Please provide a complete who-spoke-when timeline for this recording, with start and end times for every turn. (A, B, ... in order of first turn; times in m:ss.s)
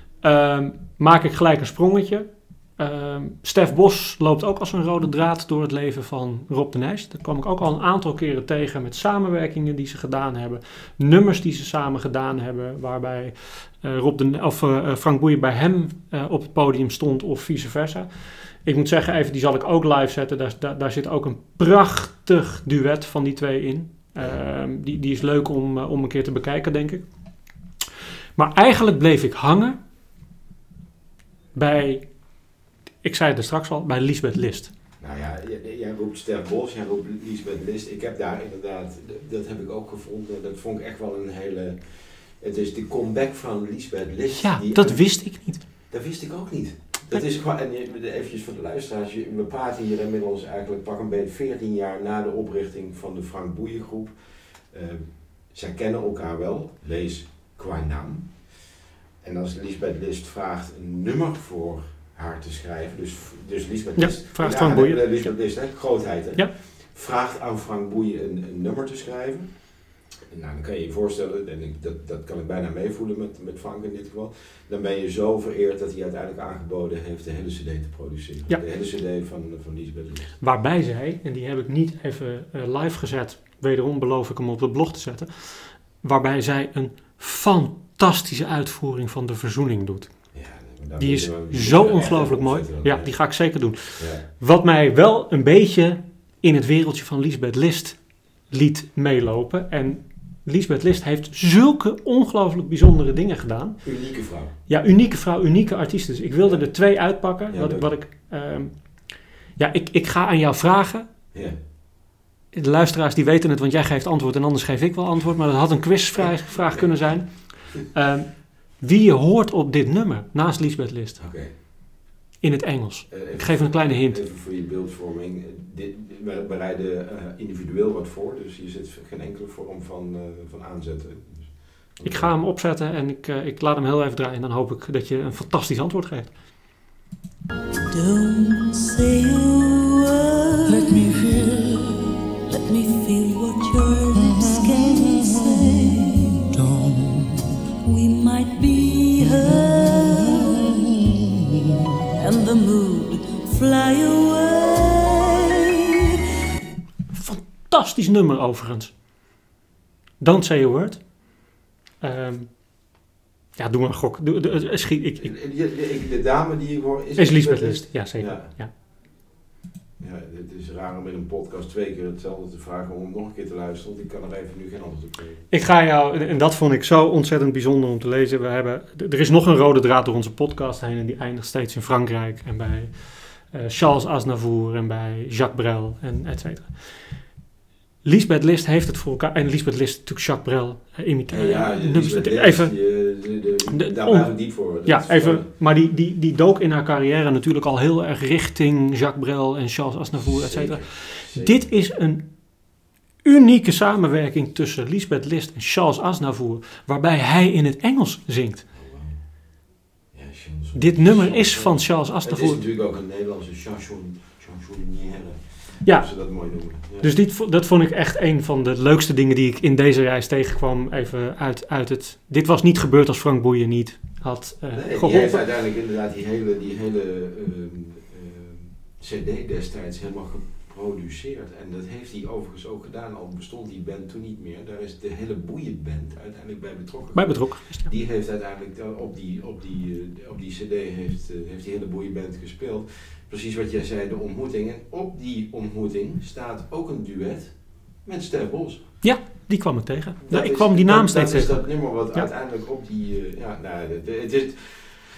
0:00.2-0:27.0 A
0:28.4-0:29.8 A
0:31.6-0:32.2 A
0:33.0-0:34.7 A
0:35.0-0:54.2 B
0:44.4-0:45.6 A
0:54.7-0:58.5 B
0:59.2-1:09.7 B
1:04.0-1:05.4 A
1:10.3-1:20.4 B
1:20.4-1:30.2 A
1:30.3-1:33.2 B
1:31.0-1:43.9 A
1:34.0-1:34.2 B
1:43.8-1:44.5 B
1:44.7-1:51.1 A
1:46.4-1:46.7 B
1:47.5-1:47.9 B
1:52.5-2:01.2 A
1:56.2-1:56.9 B
2:01.2-2:01.5 B
2:02.4-2:04.2 A
2:03.1-2:12.3 B
2:12.0-2:16.3 A
2:17.9-2:20.9 C
2:20.7-2:22.0 D
2:22.5-2:26.4 C
2:24.4-2:24.9 D
2:26.5-2:27.5 D
2:27.8-2:30.6 C
2:32.2-2:35.6 C
2:37.1-2:38.9 A
2:40.2-2:41.3 A
2:42.0-2:42.9 A
2:43.6-2:45.3 A
2:45.2-2:48.5 B
2:47.2-2:48.7 A
2:50.0-2:55.4 B
2:55.5-3:07.1 A
3:08.0-3:12.9 A
3:11.3-3:15.5 B
3:13.7-3:22.6 A
3:20.2-3:21.6 B
3:23.2-3:28.6 A
3:28.7-3:29.2 B
3:30.1-3:37.1 B
3:30.8-3:32.6 A
3:37.0-3:45.4 A
3:44.7-4:08.9 B
3:57.2-3:57.9 A
4:09.0-4:12.3 A
4:10.2-4:15.0 B